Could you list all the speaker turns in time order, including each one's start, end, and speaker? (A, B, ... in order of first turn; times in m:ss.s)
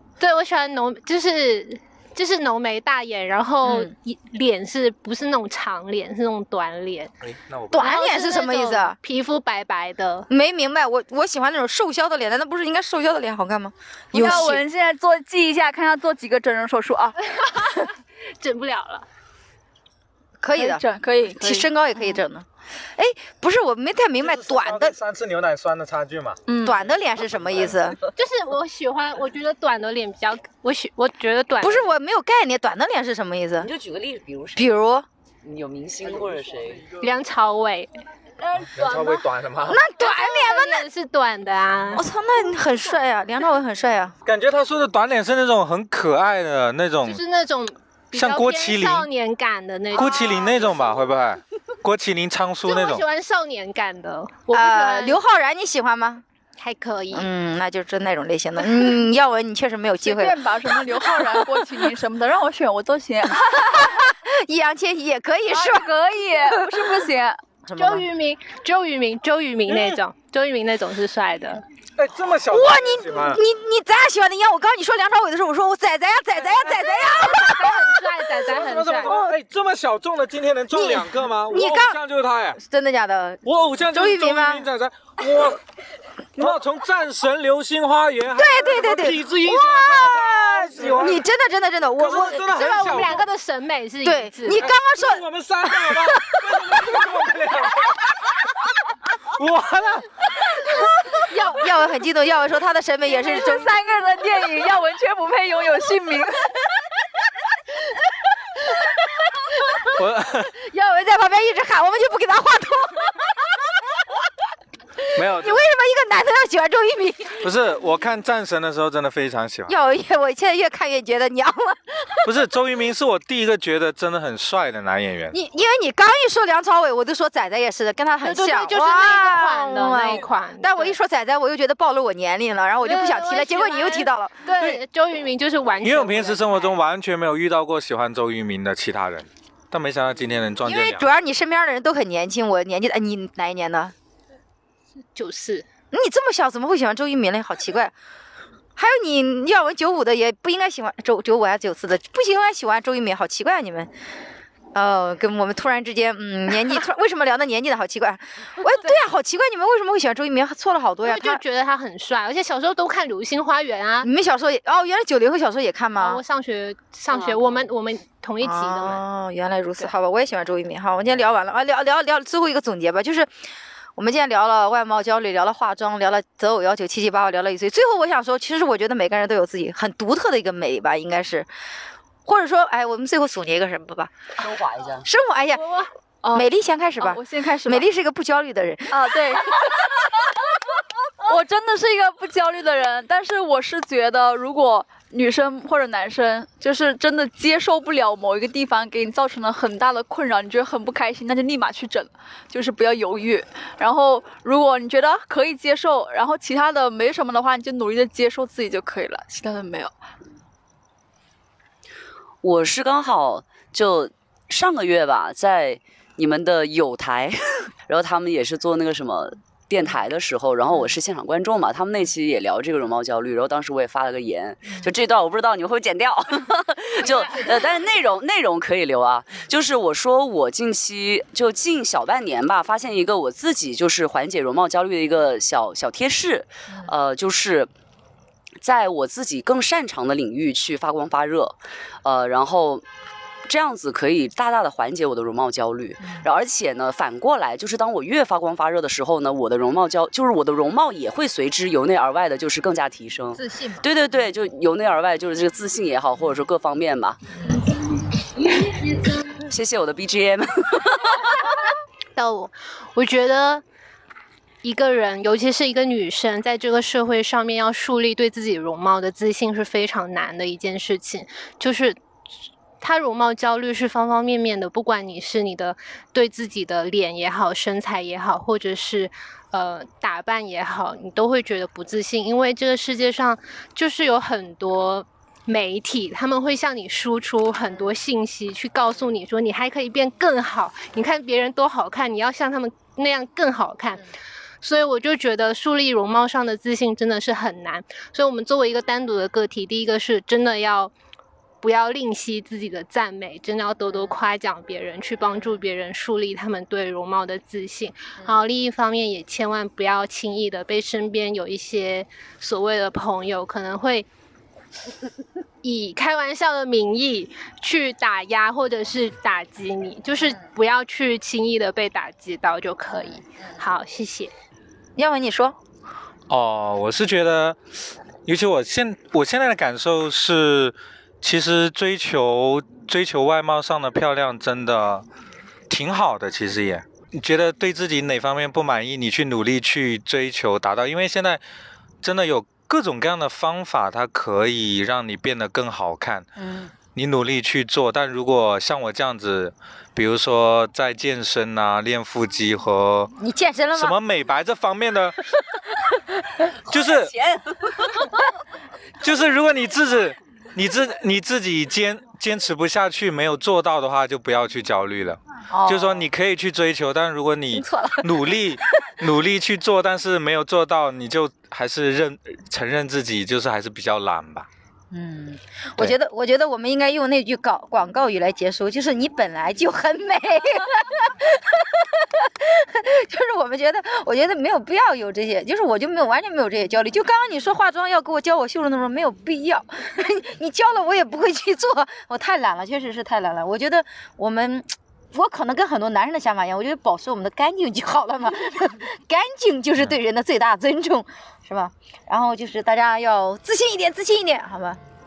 0:00.2-0:07.1 A
0:03.6-0:03.9 B
0:07.2-0:08.0 C
0:07.7-0:09.0 B
0:07.8-0:10.3 A
0:10.3-0:14.6 B
0:14.1-0:17.2 D
0:17.4-0:19.1 A
0:20.4-0:25.0 B
0:20.6-0:21.7 D
0:24.2-0:26.4 C
0:26.5-0:28.0 B
0:28.1-0:31.9 A
0:31.6-0:33.7 B
0:33.6-0:34.7 E
0:34.6-0:35.1 B
0:35.4-0:37.0 E
0:37.0-0:37.9 A
0:38.6-0:39.8 C
0:39.6-0:40.8 B
0:40.0-0:42.1 A
0:41.9-0:44.2 B
0:44.3-0:47.2 C
0:47.0-0:50.8 A
0:48.1-0:49.1 C
0:49.9-0:53.0 C
0:50.0-0:50.4 B
0:52.6-0:55.2 A
0:54.5-0:56.2 B
0:56.6-0:57.3 A
0:57.1-1:01.4 B
1:00.0-1:03.9 D
1:03.4-1:05.9 B
1:05.5-1:07.4 D
1:06.4-1:06.9 B
1:07.7-1:08.1 B
1:07.8-1:11.6 A
1:09.7-1:10.0 C
1:12.0-1:13.4 C
1:12.5-1:18.0 B
1:17.0-1:19.1 A
1:18.4-1:22.6 C
1:19.0-1:19.4 B
1:20.7-1:22.0 B
1:22.6-1:24.7 B
1:23.4-1:25.6 C
1:26.4-1:31.2 C
1:28.3-1:33.1 B
1:32.0-1:33.2 C
1:32.5-1:34.6 A
1:34.0-1:36.9 B
1:34.6-1:38.1 C
1:39.3-1:40.8 C
1:41.2-1:43.8 B
1:43.1-1:46.7 D
1:48.2-1:54.2 B
1:49.9-1:50.5 C
1:55.1-1:55.6 C
1:55.2-1:57.5 B
1:57.4-1:59.7 C
1:59.7-2:02.3 B
2:02.2-2:05.4 C
2:05.3-2:14.4 B
2:08.2-2:11.0 A
2:12.8-2:16.8 A
2:15.8-2:21.1 C
2:20.6-2:23.9 B
2:25.2-2:25.7 A
2:25.9-2:27.9 B
2:28.8-2:33.9 B
2:34.7-2:41.4 B
2:41.0-2:44.1 A
2:44.0-2:46.2 B
2:46.0-2:49.0 A
2:48.4-2:53.3 B
2:54.0-3:01.5 B
3:02.2-3:04.1 B
3:04.4-3:05.1 E
3:05.0-3:05.8 B
3:06.3-3:09.7 B
3:07.0-3:07.9 D
3:08.9-3:10.2 D
3:11.2-3:29.9 D
3:32.4-3:57.7 E
3:58.6-4:02.8 E
4:03.5-4:17.5 E
4:13.3-4:13.9 B
4:19.3-4:21.6 E
4:22.2-4:23.6 A
4:24.6-4:32.0 A
4:32.8-4:54.0 A
4:54.6-5:00.9 A
5:01.6-5:14.1 A
5:15.6-5:24.3 A
5:25.0-5:25.6 B
5:26.3-5:27.6 C
5:28.2-5:35.1 C
5:35.7-5:41.4 C
5:42.0-5:46.3 C
5:46.4-5:46.7 B
5:46.9-5:53.1 C
5:53.2-5:54.0 B
5:53.8-5:55.2 C
5:55.8-5:56.5 B
5:56.7-5:58.0 E
5:56.7-5:57.2 C
5:59.0-6:14.5 C
6:05.5-6:06.1 B
6:07.5-6:08.4 B
6:14.9-6:44.8 B